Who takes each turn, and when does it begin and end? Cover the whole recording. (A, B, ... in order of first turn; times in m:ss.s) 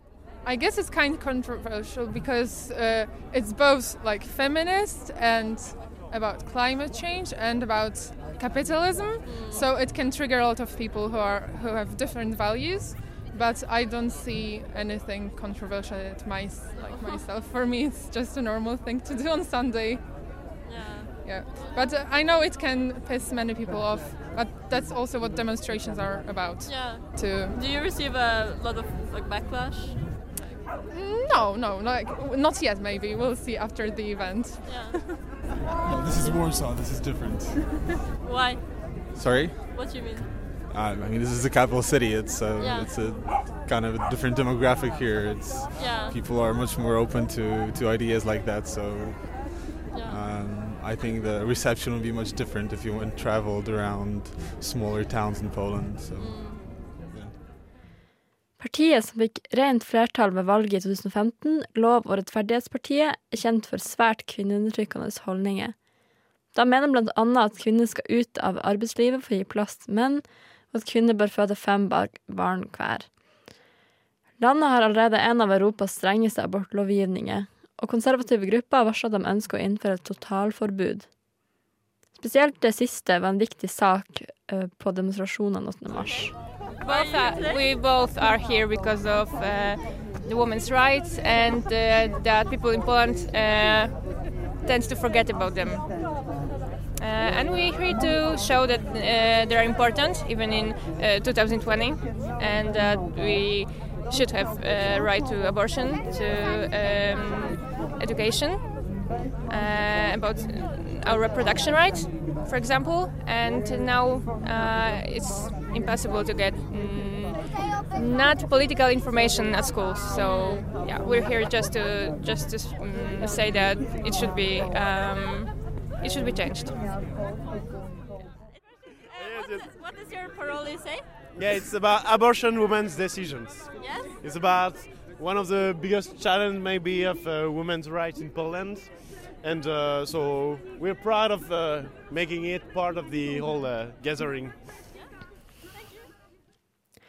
0:00.4-0:20.0 A
0:09.2-0:09.7 B
0:16.7-0:17.2 B
0:20.6-0:21.9 B
0:21.2-0:27.6 A
0:26.6-0:30.0 B
0:30.9-0:34.9 A
0:34.6-0:35.1 B
0:35.8-0:37.8 C
0:38.2-0:38.6 B
0:39.2-0:40.1 C
0:39.7-0:40.3 B
0:40.7-0:57.3 C
0:42.6-0:43.0 B
0:45.8-0:46.2 B
0:49.9-0:50.2 B
0:56.2-0:56.8 B
0:58.6-1:05.8 D
1:06.5-1:13.1 D
1:14.4-1:21.1 D
1:22.2-1:26.3 D
1:25.9-1:27.7 B
1:26.8-1:34.0 E
1:34.6-1:35.9 E
1:37.0-1:48.8 E
1:49.5-2:06.8 E
2:08.2-2:11.0 B
2:09.2-2:09.7 F
2:11.4-2:24.7 F
2:13.8-2:14.2 B
2:24.9-2:26.1 B